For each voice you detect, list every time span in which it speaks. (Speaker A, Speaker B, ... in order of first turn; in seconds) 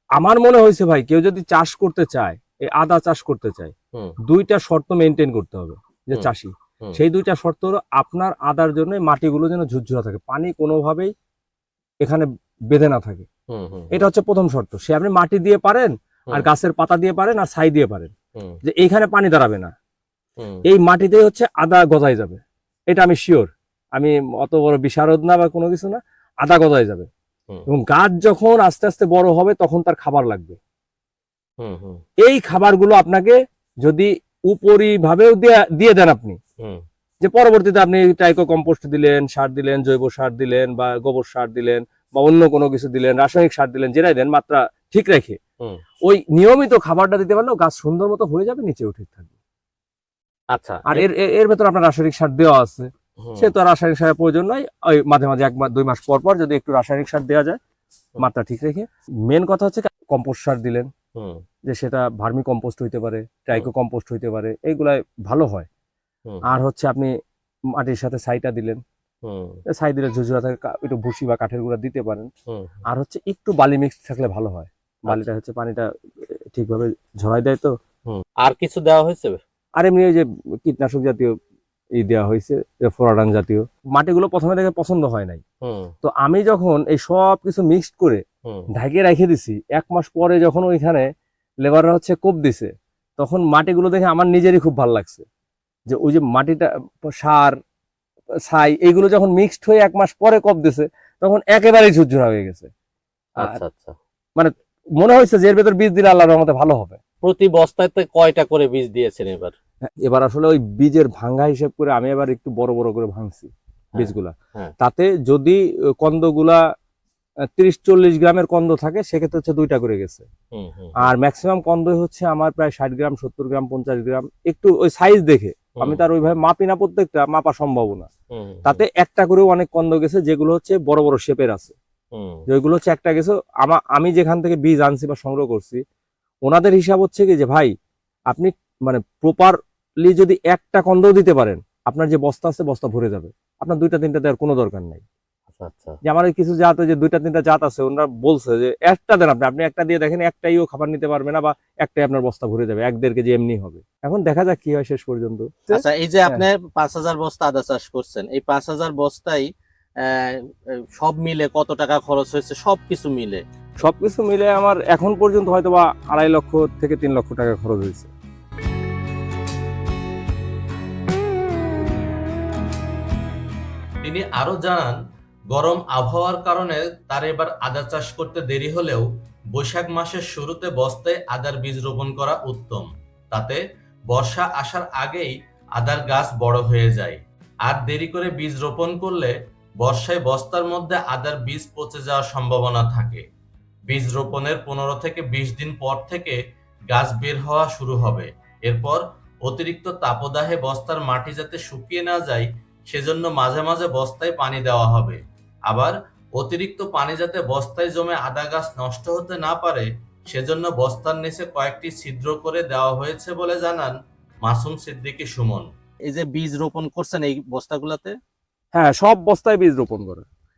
Speaker A: 0.2-3.7, 4.3-11.1, 12.0-13.3, 13.9-18.1, 18.6-19.7, 20.6-27.1, 27.7-30.6, 32.2-36.4, 37.2-45.4, 46.0-49.3, 50.9-57.6, 58.2-60.9, 61.7-65.7, 66.4-67.1, 67.8-68.8, 69.7-72.3, 72.9-77.7, 79.8-81.3, 82.0-85.4, 86.0-88.2, 88.7-91.1, 91.6-95.2, 95.9-97.6, 98.5-102.7, 104.4-107.0, 110.0-116.6, 117.6-120.2, 121.0-128.1, 128.6-131.7, 132.5-135.8, 136.4-137.7, 138.3-145.0, 146.0-156.4, 163.8-168.1, 218.7-220.2
Speaker B: 13.5-14.0, 31.6-32.0, 50.5-51.0, 53.2-53.5, 61.1-61.4, 66.3-66.5, 69.2-69.6, 78.1-79.4, 85.6-85.9, 103.4-104.0, 107.2-109.5, 113.9-114.7, 120.5-121.1, 125.8-126.0, 128.3-128.8, 132.1-132.4, 145.5-146.0, 155.7-159.5, 160.0-160.4, 161.0-163.4, 216.1-218.1
Speaker C: 174.0-175.0, 175.5-193.2, 193.9-196.4, 196.9-215.7